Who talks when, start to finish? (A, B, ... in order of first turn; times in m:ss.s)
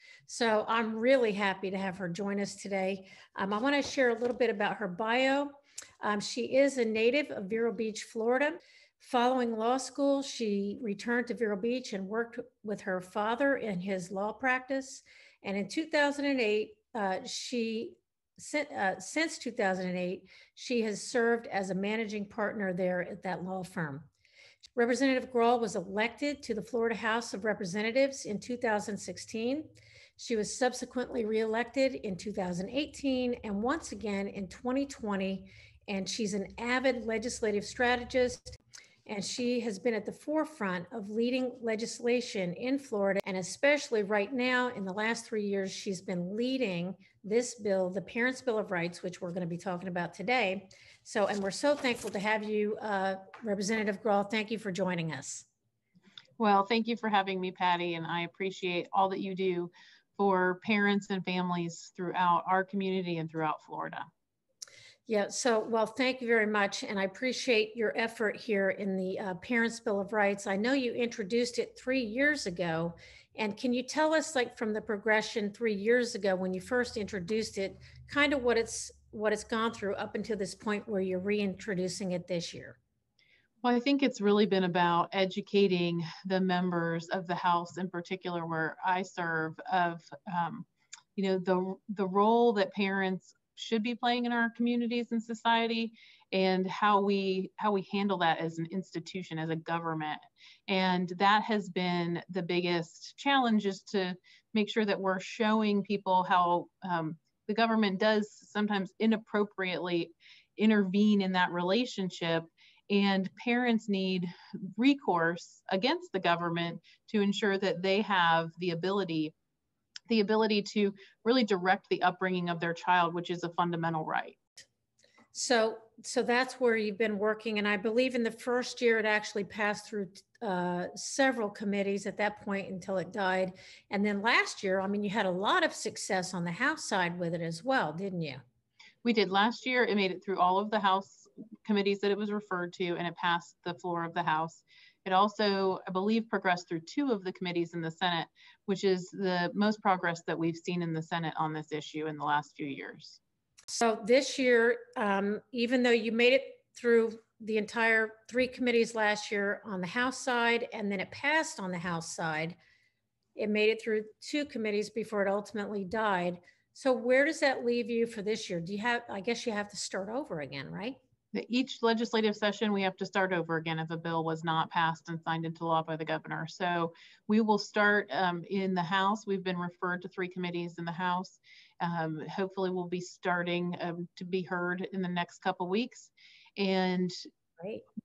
0:00.3-0:24.1 A
0:24.7-0:55.5 A
0:56.4-1:04.1 B
1:05.1-1:22.8 A
1:23.6-1:59.3 B
2:00.1-2:04.4 B
2:05.3-2:18.4 A
2:19.0-2:33.2 B
2:33.7-2:42.6 A
2:43.4-2:51.0 A
2:51.3-3:07.2 B